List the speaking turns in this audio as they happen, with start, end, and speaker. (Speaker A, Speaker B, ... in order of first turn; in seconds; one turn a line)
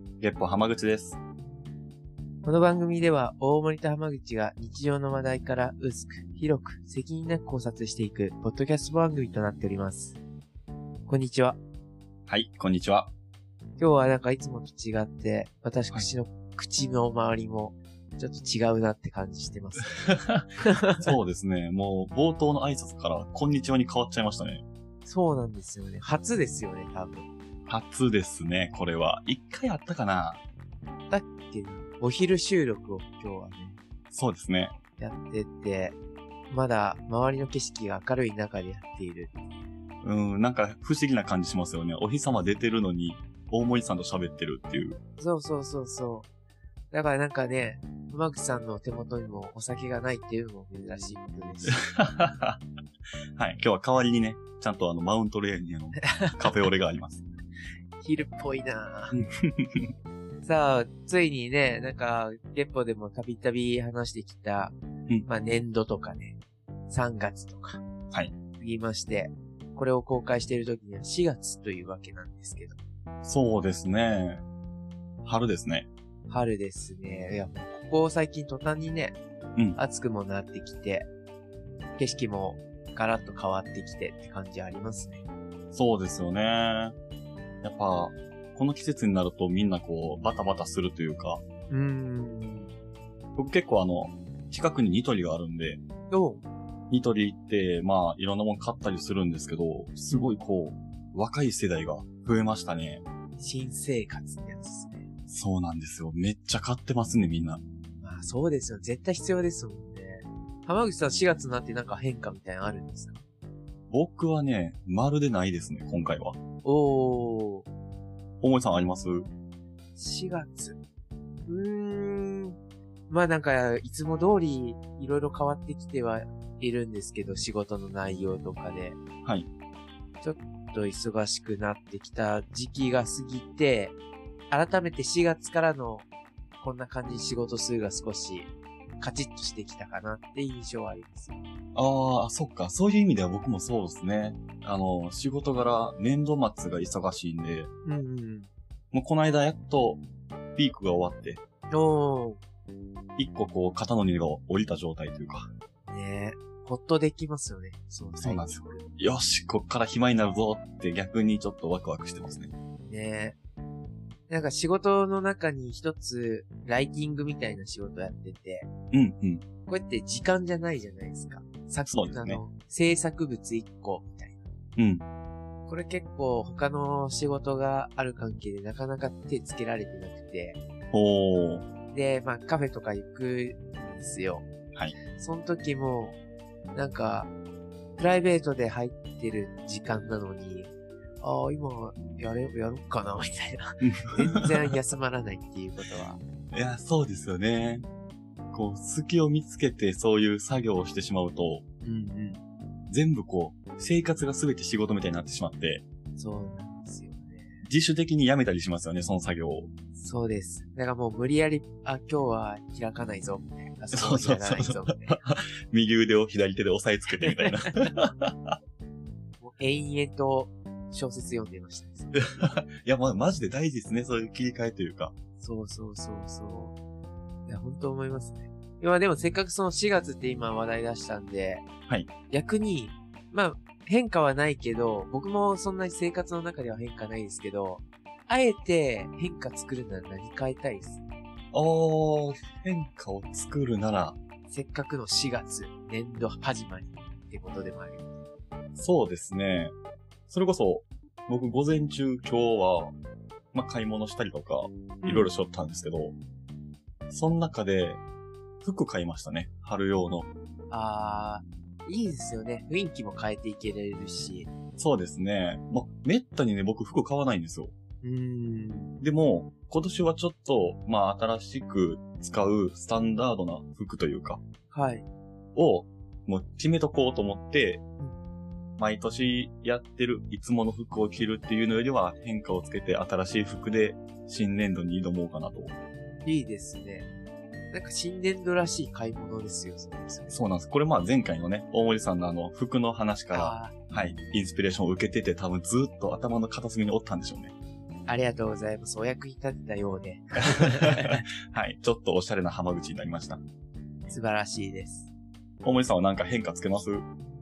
Speaker A: 0.2-1.2
Speaker B: 2.4-10.2
Speaker B: 11.1-11.6
Speaker A: 12.3-13.1
Speaker B: 13.8-20.1
Speaker A: 19.9-24.6
Speaker B: 20.6-21.0
Speaker B: 25.0-27.3
Speaker A: 27.7-30.4
Speaker B: 31.1-33.8
Speaker A: 34.1-34.7
Speaker B: 35.0-36.0
Speaker B: 36.5-39.5
Speaker A: 40.0-45.0
Speaker B: 45.2-46.3
Speaker B: 46.9-51.8
Speaker A: 51.6-52.6
Speaker A: 53.4-57.3
Speaker B: 55.9-56.4
Speaker B: 58.0-59.2
Speaker A: 59.1-59.9
Speaker B: 60.4-64.8
Speaker B: 65.3-66.4
Speaker B: 66.9-67.8
Speaker B: 68.6-72.8
Speaker A: 73.2-74.4
Speaker A: 75.2-75.9
Speaker B: 76.3-79.2
Speaker B: 79.7-81.1
Speaker B: 82.0-85.2
Speaker A: 85.7-86.9
Speaker A: 87.6-91.4
Speaker B: 91.7-92.8
Speaker A: 93.3-95.8
Speaker B: 96.1-96.4
Speaker A: 96.9-103.0
Speaker B: 100.1-100.4
Speaker B: 103.4-105.0
Speaker A: 105.3-107.6
Speaker B: 108.0-113.2
Speaker A: 113.9-116.4
Speaker B: 116.6-117.7
Speaker A: 118.4-119.3
Speaker B: 120.0-120.8
Speaker B: 121.5-122.5
Speaker B: 123.1-129.0
Speaker B: 130.2-134.0
Speaker B: 134.5-136.1
Speaker B: 136.6-141.4
Speaker A: 141.7-147.7
Speaker B: 147.8-148.5
Speaker A: 148.9-150.0
Speaker A: 150.6-151.4
Speaker B: 151.7-152.4
Speaker A: 153.2-155.5
Speaker B: 155.9-158.8
Speaker A: 158.2-162.5
Speaker B: 162.8-163.3
Speaker B: 164.3-168.7
Speaker A: 168.9-169.4
Speaker B: 169.7-174.4
Speaker A: 171.8-172.4
Speaker A: 174.8-175.0
Speaker B: 175.7-180.6
Speaker A: 180.9-181.7
Speaker B: 181.9-184.4
Speaker B: 185.1-186.2
Speaker B: 186.7-187.3
Speaker B: 188.0-196.2
Speaker A: 193.8-194.5
Speaker A: 196.5-197.8
Speaker A: 198.5-201.6
Speaker B: 201.8-202.4
Speaker A: 202.9-205.8
Speaker B: 206.2-207.6
Speaker A: 207.6-209.7
Speaker B: 210.0-215.2
Speaker A: 213.9-218.6
Speaker B: 217.2-217.9
Speaker B: 219.4-222.4
Speaker A: 222.1-225.1
Speaker B: 225.4-226.7
Speaker B: 227.5-231.6
Speaker B: 232.3-241.0
Speaker A: 241.5-244.2
Speaker B: 244.5-248.2
Speaker A: 248.7-249.7
Speaker A: 250.3-252.9
Speaker A: 253.5-256.1
Speaker B: 255.0-255.3
Speaker A: 257.1-258.0
Speaker A: 258.6-260.3
Speaker B: 260.7-264.5
Speaker A: 264.8-267.7
Speaker B: 268.0-268.9
Speaker A: 269.0-274.4
Speaker B: 274.7-275.1
Speaker A: 275.5-277.8
Speaker A: 278.8-285.7
Speaker B: 286.2-287.1
Speaker B: 287.7-290.3
Speaker A: 290.3-297.5
Speaker B: 293.3-293.7
Speaker B: 298.1-301.2
Speaker A: 300.5-303.4
Speaker B: 304.1-305.1
Speaker A: 305.6-307.1